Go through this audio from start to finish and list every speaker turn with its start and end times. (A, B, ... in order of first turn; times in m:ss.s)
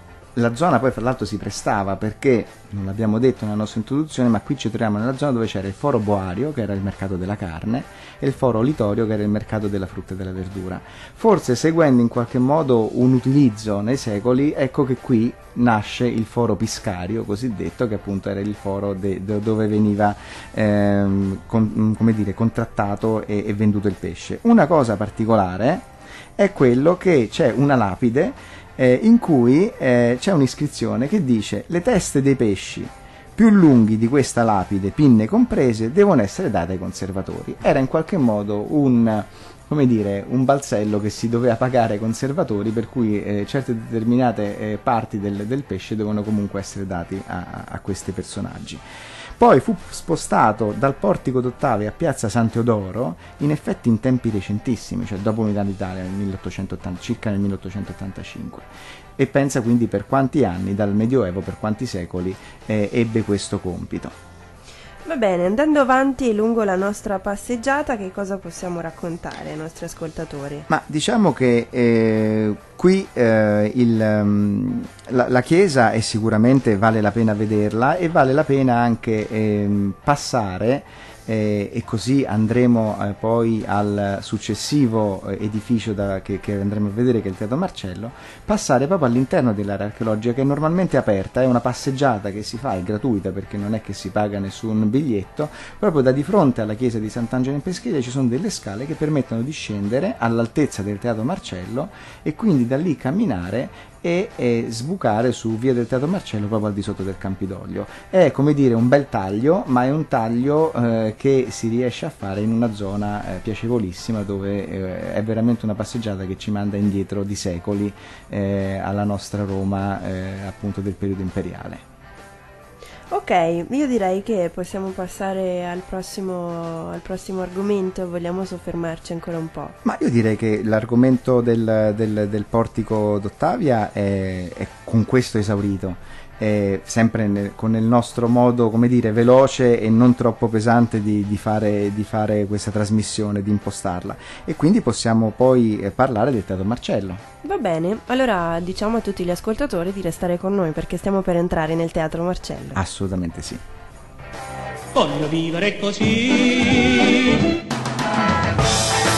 0:00.4-0:48.8 A
0:49.4-1:04.2 A
1:05.0-1:10.7 B
1:10.7-2:01.8 A
2:03.1-2:09.8 B
2:09.8-2:27.2 A
2:27.4-2:32.8 B
2:32.7-2:33.6 A
2:34.9-2:37.6 C